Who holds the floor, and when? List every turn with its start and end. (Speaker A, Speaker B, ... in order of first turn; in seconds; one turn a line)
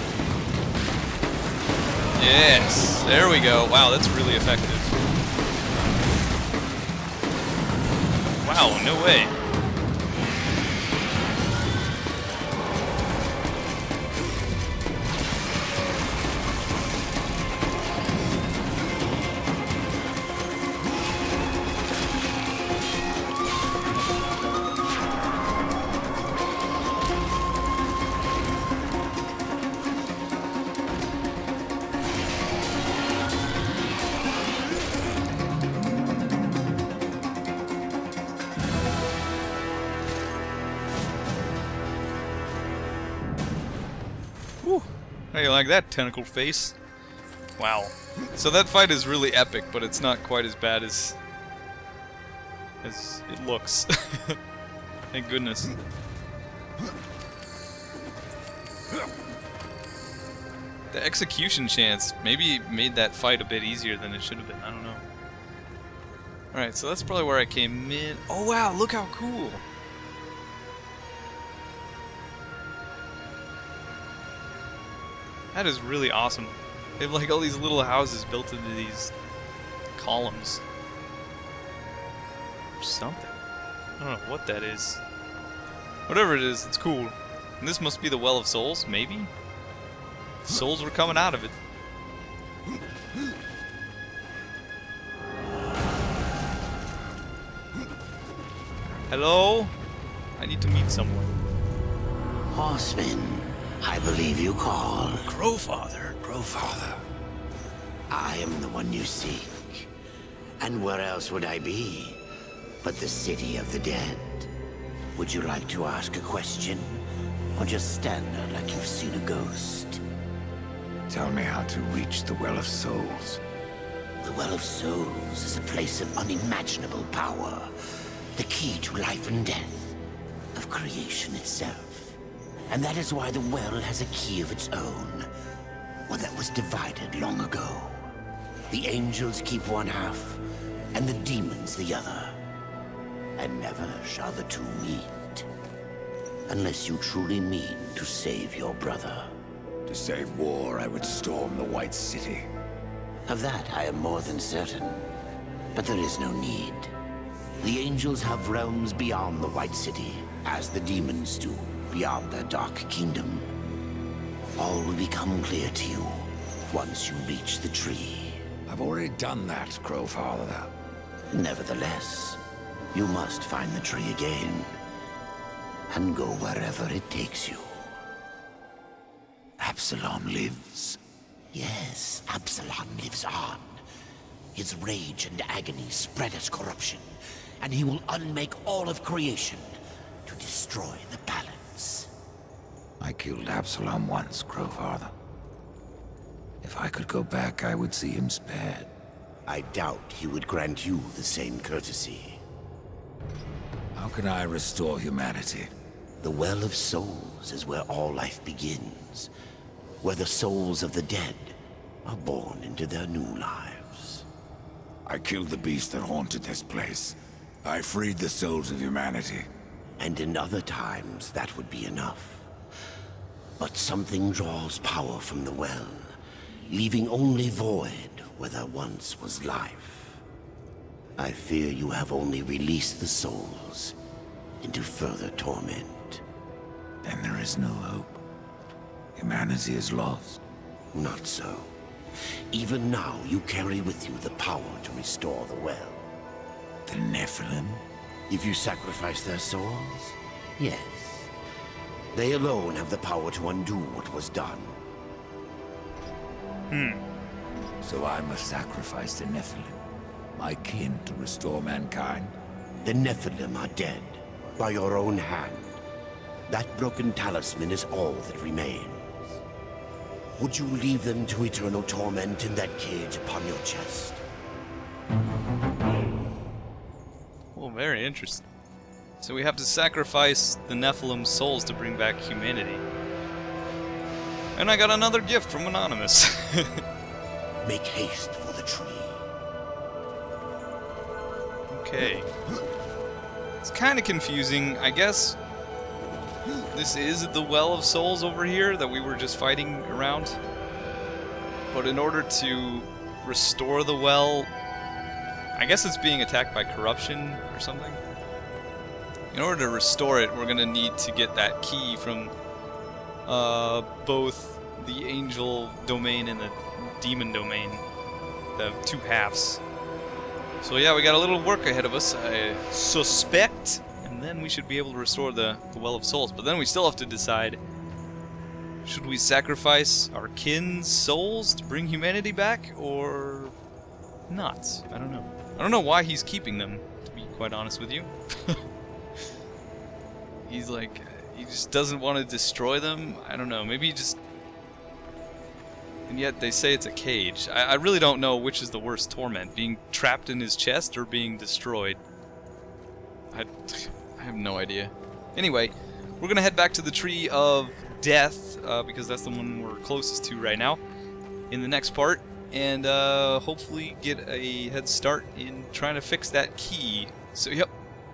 Speaker A: 2.1-4.9
Speaker A: 8.4-9.3
Speaker A: 44.6-46.8
Speaker A: 47.6-51.2
Speaker A: 52.8-54.4
Speaker A: 55.1-55.7
Speaker A: 60.9-65.0
Speaker A: 66.5-69.6
Speaker A: 75.5-79.1
Speaker A: 80.0-80.6
Speaker A: 82.8-83.4
Speaker A: 84.0-85.0
Speaker A: 86.1-89.3
Speaker A: 90.4-91.5
Speaker A: 99.1-99.7
Speaker A: 100.4-101.3
Speaker B: 102.5-105.3
Speaker A: 105.2-107.0
Speaker B: 108.1-109.9
Speaker B: 110.6-112.2
Speaker B: 112.8-114.5
Speaker B: 115.1-117.0
Speaker B: 117.5-120.0
Speaker C: 121.1-123.4
Speaker B: 124.2-127.7
Speaker B: 128.3-129.9
Speaker B: 130.5-132.2
Speaker B: 132.7-135.3
Speaker B: 136.1-138.1
Speaker B: 138.7-140.4
Speaker B: 140.9-142.4
Speaker B: 143.4-145.4
Speaker B: 146.5-149.3
Speaker C: 149.9-152.5
Speaker B: 153.3-155.1
Speaker B: 155.7-156.9
Speaker B: 157.6-163.5
Speaker B: 164.6-168.4
Speaker C: 168.7-170.7
Speaker B: 171.3-172.4
Speaker B: 172.9-174.8
Speaker B: 175.9-177.9
Speaker C: 179.6-181.0
Speaker B: 181.5-183.8
Speaker B: 184.5-187.1
Speaker B: 187.6-192.1
Speaker C: 193.0-195.1
Speaker C: 196.6-198.9
Speaker B: 199.5-202.4
Speaker C: 203.9-205.7
Speaker B: 206.2-209.3
Speaker B: 210.0-214.2
Speaker C: 215.1-219.5
Speaker B: 220.0-222.5
Speaker B: 223.6-226.2
Speaker B: 226.7-230.2
Speaker B: 231.2-233.9
Speaker B: 234.6-236.2
Speaker C: 237.0-238.2
Speaker C: 239.2-240.4
Speaker B: 240.9-241.7
Speaker B: 242.5-246.0
Speaker C: 246.9-247.8
Speaker B: 248.3-251.3
Speaker B: 252.1-254.8
Speaker A: 256.7-257.0
Speaker C: 257.8-259.8
Speaker C: 260.3-262.3
Speaker B: 262.8-265.8
Speaker B: 266.5-269.4
Speaker B: 270.4-274.2
Speaker A: 277.5-278.4
Speaker A: 279.2-282.8
Speaker A: 284.5-286.8
Speaker B: 287.6-289.2
Speaker A: 291.7-292.3
Speaker A: 293.6-295.4
Speaker A: 296.7-300.4
Speaker A: 301.7-304.5
Speaker A: 305.5-308.0
Speaker A: 309.3-312.3
Speaker A: 313.2-317.8
Speaker A: 318.6-319.6
Speaker A: 320.6-327.6
Speaker A: 328.8-333.5
Speaker A: 334.3-338.6
Speaker A: 340.4-344.2
Speaker A: 346.1-352.0
Speaker A: 353.3-360.8
Speaker A: 361.5-367.7